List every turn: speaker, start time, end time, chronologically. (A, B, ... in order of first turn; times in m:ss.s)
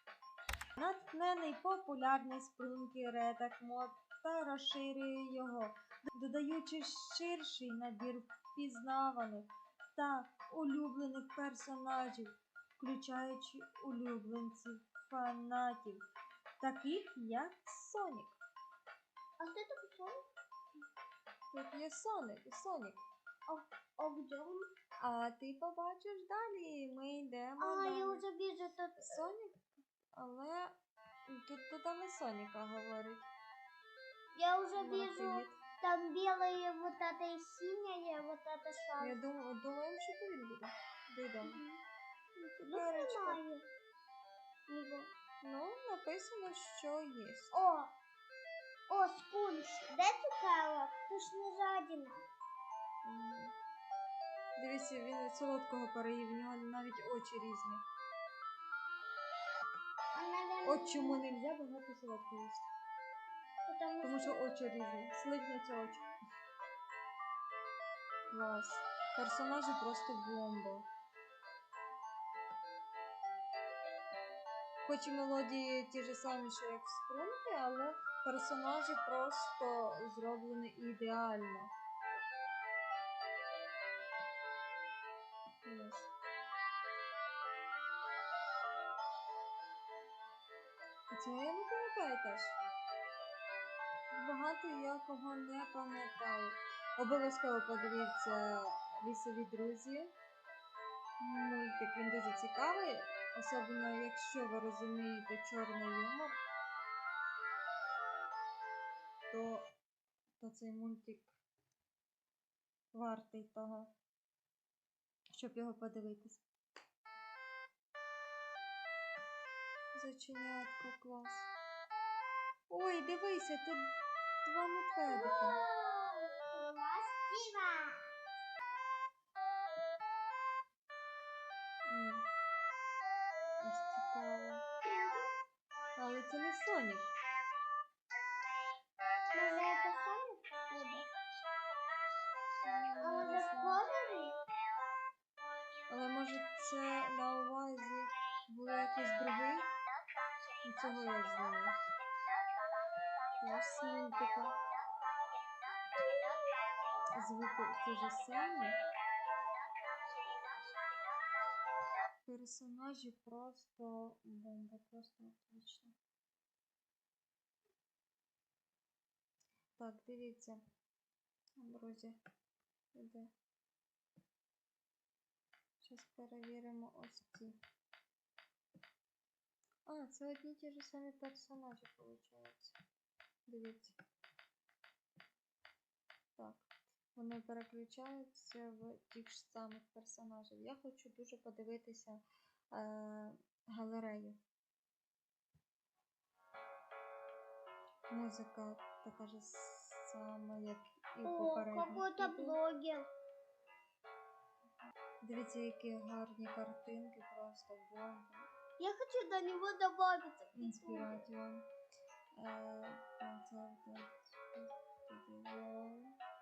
0:00.8-0:16.0 A
0:16.6-0:18.4 A
0:19.4-0:20.2 B
0:21.5-0:23.0 A
0:23.5-0:24.7 B
0:25.0-0:28.2 A
0:27.6-0:29.3 B
0:29.0-0:30.8 A
0:31.3-0:33.3 A
0:34.4-0:39.2 B
0:34.8-0:35.6 A
0:39.0-0:41.6 A
0:41.4-0:41.8 B
0:42.4-0:43.7 B
0:42.6-0:43.4 A
0:44.7-0:45.1 B
0:45.4-0:47.6 A
0:47.5-0:47.9 B
0:48.9-0:52.2 B
0:53.0-0:53.5 A
0:54.6-0:57.8 A
1:00.1-1:01.2 B
1:00.6-1:02.7 A
1:03.7-1:04.4 B
1:04.0-1:06.1 A
1:08.3-1:10.9 A
1:14.8-1:21.7 A
1:25.6-1:26.1 A
1:31.1-1:32.5 A
1:34.1-1:40.1 A
1:41.2-1:46.4 A
1:49.3-1:49.7 A
1:50.4-1:51.4 A
1:52.9-1:53.9 A
1:55.3-1:56.4 A
1:59.9-2:01.5 A
2:02.7-2:03.9 A
2:04.4-2:05.6 A
2:05.0-2:08.1 B
2:11.9-2:12.2 A
2:13.6-2:14.6 A
2:14.8-2:15.3 B
2:16.0-2:17.0 A
2:19.3-2:21.1 B
2:22.6-2:23.8 A
2:23.0-2:24.4 B
2:25.9-2:29.7 A
2:30.6-2:31.8 A
2:33.4-2:34.6 A
2:37.1-2:38.8 A
2:42.3-2:45.9 A
2:49.8-2:50.6 A
2:51.6-2:52.2 A
2:52.9-2:53.3 A
2:55.8-2:57.5 A
2:59.9-3:02.8 A
3:03.5-3:04.0 A
3:06.4-3:12.2 A
3:12.7-3:14.4 A
3:18.1-3:22.6 A
3:21.2-3:23.1 B
3:25.2-3:28.5 A
3:28.8-3:31.2 B
3:30.6-3:31.7 A
3:32.4-3:36.2 A